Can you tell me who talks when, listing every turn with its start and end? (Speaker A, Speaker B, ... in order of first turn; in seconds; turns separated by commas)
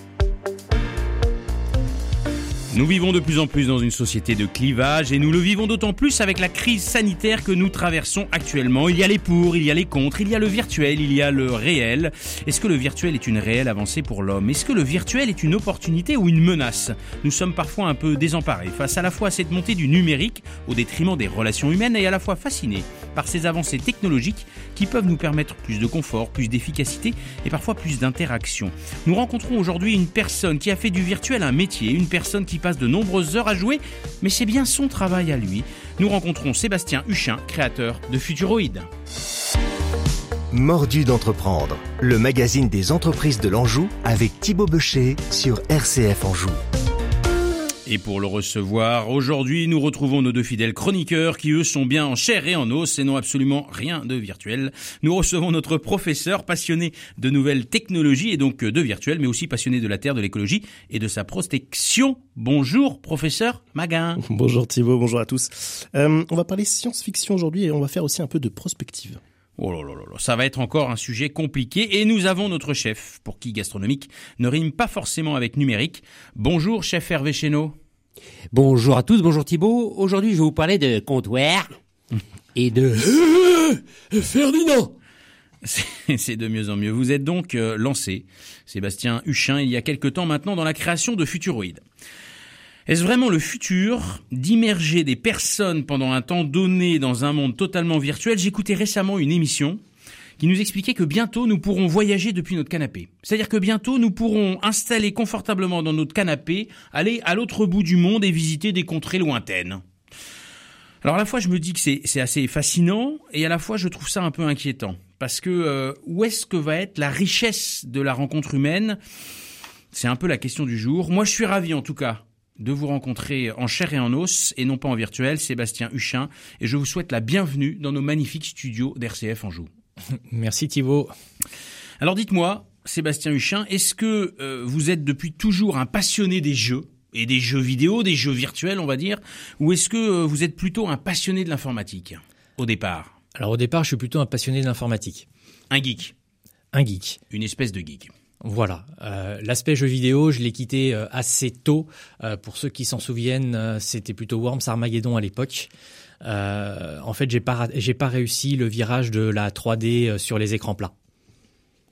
Speaker A: 2.7-38.9, Speaker B: 40.5-46.6, Speaker A: 47.9-64.2, Speaker C: 64.2-69.2, Speaker A: 69.6-77.8, Speaker D: 78.5-81.7, Speaker D: 82.5-84.9, Speaker A: 85.6-91.8, Speaker A: 92.9-99.8, Speaker A: 100.4-109.8, Speaker A: 111.0-119.0, Speaker A: 119.9-129.7, Speaker E: 130.3-131.1, Speaker A: 132.0-143.1, Speaker E: 143.3-145.2, Speaker A: 145.7-146.1, Speaker E: 146.7-147.2, Speaker A: 147.3-148.1, Speaker E: 148.4-155.7, Speaker E: 156.2-160.9